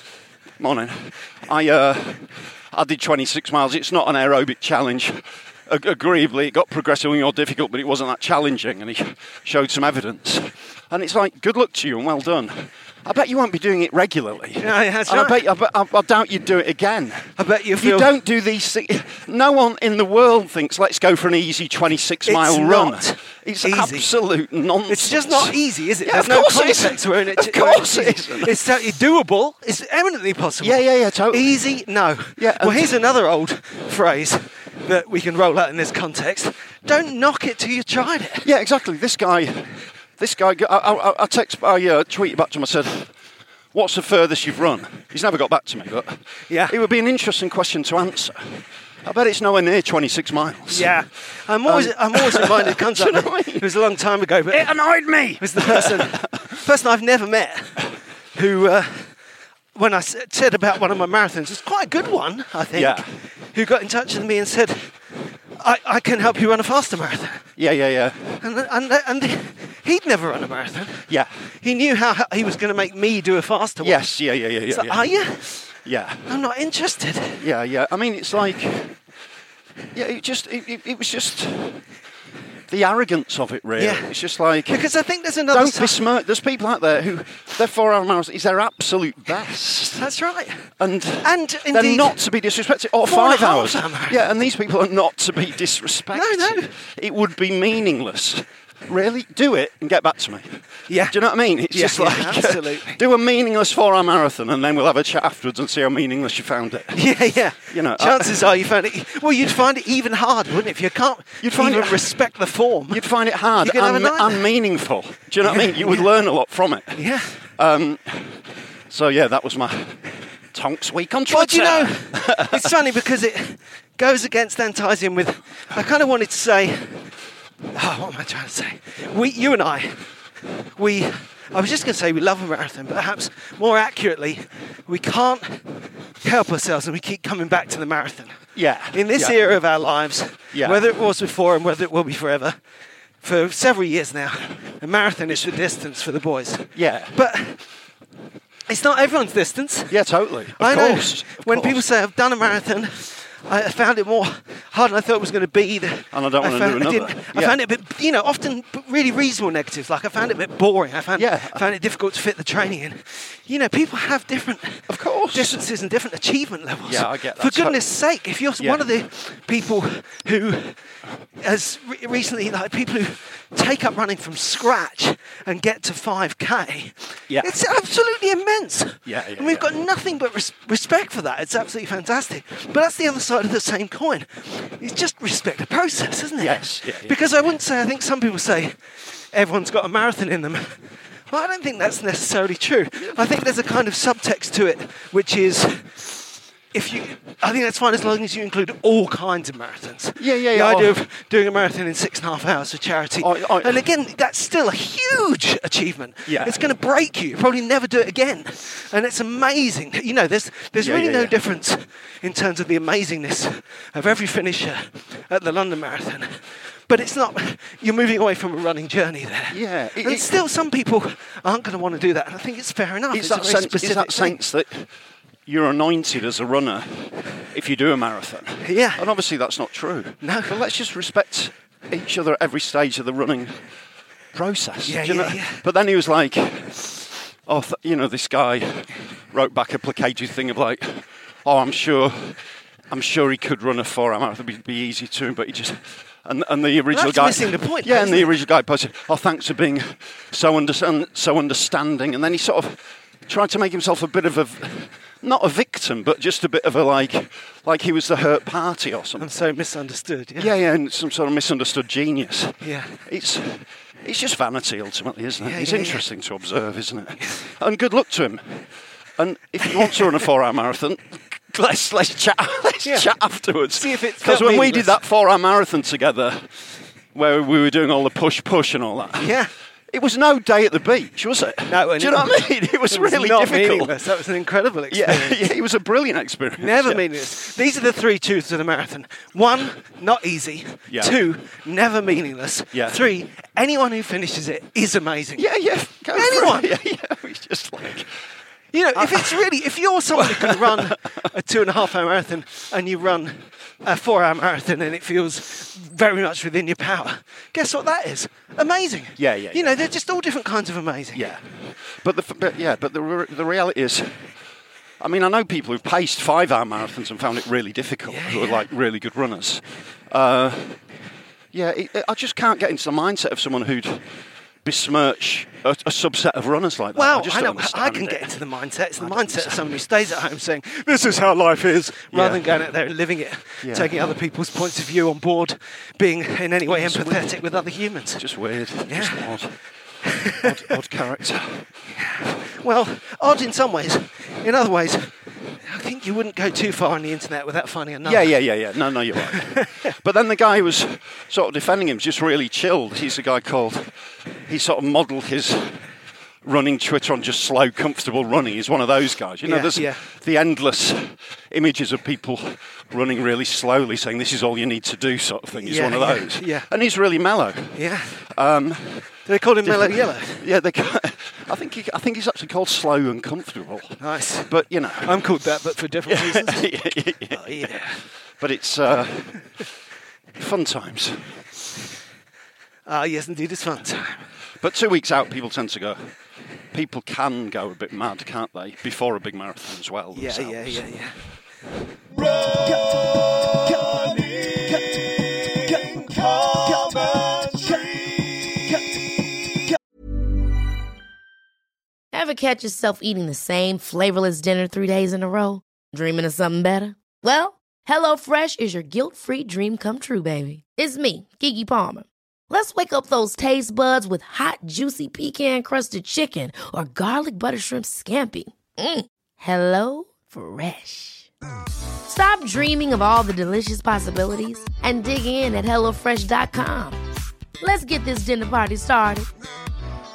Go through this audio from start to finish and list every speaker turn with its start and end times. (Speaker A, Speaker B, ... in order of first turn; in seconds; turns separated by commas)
Speaker A: 0.6-28.6, Speaker B: 14.6-15.4, Speaker B: 17.4-18.1, Speaker B: 22.2-24.1, Speaker B: 24.9-38.5, Speaker A: 30.6-31.6, Speaker A: 32.4-33.0, Speaker A: 38.4-43.1, Speaker A: 43.7-50.9, Speaker B: 46.5-46.8, Speaker B: 50.7-54.7, Speaker A: 51.6-53.8, Speaker A: 54.5-56.5, Speaker B: 55.4-59.1, Speaker B: 59.7-65.0, Speaker A: 62.7-63.1, Speaker B: 65.6-67.5, Speaker A: 67.6-68.4, Speaker B: 68.4-74.0, Speaker A: 71.1-71.3, Speaker A: 73.8-76.3, Speaker B: 74.7-75.7, Speaker B: 76.2-77.4, Speaker A: 77.4-79.0, Speaker A: 79.9-81.8, Speaker A: 82.7-84.9, Speaker B: 83.8-84.1, Speaker B: 84.7-86.0, Speaker A: 85.5-90.0, Speaker B: 90.0-90.7, Speaker A: 90.8-107.0, Speaker B: 91.2-92.2, Speaker B: 93.0-94.2, Speaker B: 96.1-96.7, Speaker B: 100.9-103.0, Speaker B: 106.9-114.5, Speaker A: 107.7-108.5, Speaker A: 111.4-112.2, Speaker A: 112.9-122.7, Speaker B: 115.4-116.1, Speaker B: 116.9-117.4, Speaker B: 121.3-127.1, Speaker B: 127.7-130.1, Speaker B: 130.8-142.6, Speaker A: 138.5-139.4, Speaker A: 140.5-140.8, Speaker B: 143.2-147.6, Speaker A: 146.7-147.2, Speaker B: 148.7-150.0, Speaker A: 149.9-151.8, Speaker B: 150.6-170.8, Speaker A: 156.1-157.6, Speaker A: 161.2-161.7, Speaker A: 164.9-165.6, Speaker A: 166.8-167.8, Speaker A: 168.6-168.8, Speaker B: 171.4-224.4, Speaker A: 179.1-179.7, Speaker A: 186.4-187.2, Speaker A: 193.0-193.2, Speaker A: 200.2-201.0, Speaker A: 203.2-203.8, Speaker A: 206.2-206.6, Speaker A: 210.8-211.3, Speaker A: 219.5-220.3, Speaker A: 223.1-224.9, Speaker A: 225.4-233.6, Speaker B: 228.6-229.1, Speaker B: 230.2-230.6, Speaker A: 234.3-259.3, Speaker B: 234.8-235.6, Speaker B: 246.9-248.3, Speaker B: 259.2-260.5, Speaker A: 260.4-268.6, Speaker B: 262.6-263.0, Speaker B: 265.4-266.0, Speaker A: 269.2-279.3, Speaker B: 269.7-270.1, Speaker B: 272.8-273.1, Speaker B: 273.7-275.0, Speaker B: 279.2-279.5, Speaker A: 279.9-284.0, Speaker B: 281.7-285.5, Speaker A: 284.9-287.1, Speaker B: 286.6-295.5, Speaker A: 290.9-291.2, Speaker A: 292.7-293.0, Speaker A: 295.4-298.1, Speaker B: 296.1-296.7, Speaker B: 298.7-311.3, Speaker A: 298.9-299.4, Speaker A: 300.1-301.3, Speaker A: 309.2-309.9, Speaker A: 311.1-311.5, Speaker A: 312.0-314.2, Speaker A: 315.0-320.8, Speaker B: 318.1-318.7, Speaker A: 321.5-324.1, Speaker A: 324.6-328.4, Speaker B: 326.9-338.2, Speaker A: 329.0-329.8, Speaker A: 332.1-332.4, Speaker A: 333.6-333.9, Speaker A: 336.6-337.4, Speaker A: 338.2-339.6, Speaker B: 338.8-339.4, Speaker B: 340.0-340.8, Speaker A: 340.4-341.6, Speaker B: 341.9-348.4, Speaker A: 348.0-353.9, Speaker B: 349.3-349.8, Speaker A: 354.5-355.8, Speaker A: 356.4-375.2, Speaker B: 359.4-360.0, Speaker B: 365.6-366.7, Speaker B: 367.7-368.2, Speaker B: 369.2-370.4, Speaker B: 374.0-376.7, Speaker A: 376.1-377.8, Speaker B: 377.3-378.0, Speaker A: 378.4-379.5, Speaker A: 380.4-381.4, Speaker B: 382.9-384.2, Speaker A: 384.6-386.0, Speaker A: 386.7-390.9, Speaker B: 390.1-391.1, Speaker C: 402.1-421.3, Speaker C: 422.1-427.0, Speaker C: 427.6-429.3